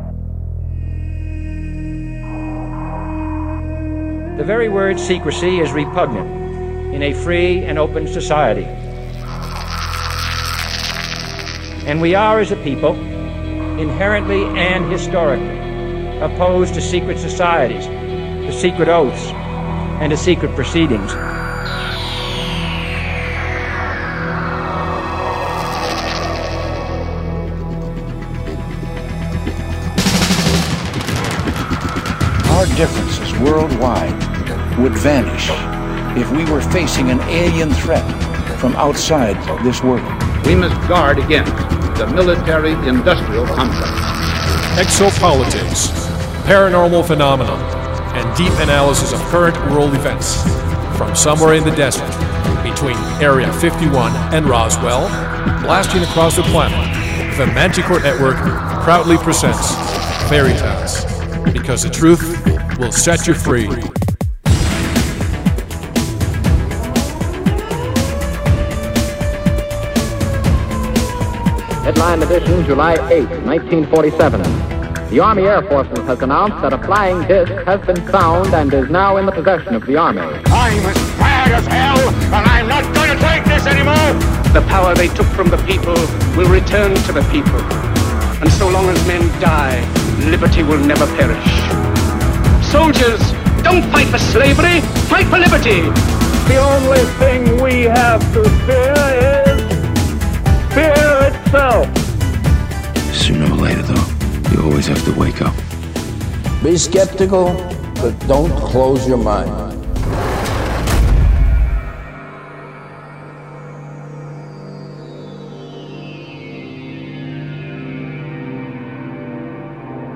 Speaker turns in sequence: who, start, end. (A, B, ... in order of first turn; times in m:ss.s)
0:04.4-0:06.4 A
0:06.9-0:08.7 A
0:11.8-0:13.0 A
0:13.8-0:15.6 A
0:16.2-0:17.9 A
0:18.4-0:19.4 A
0:20.0-0:21.2 A
0:32.4-0:40.3 B
0:40.4-0:44.1 C
0:44.8-1:03.9 D
1:11.8-1:20.4 E
1:20.5-1:24.2 F
1:24.5-1:27.8 G
1:28.4-1:31.8 G
1:32.6-1:36.0 G
1:36.5-1:39.7 H
1:40.7-1:41.9 H
1:43.1-1:45.6 I
1:46.6-1:49.8 J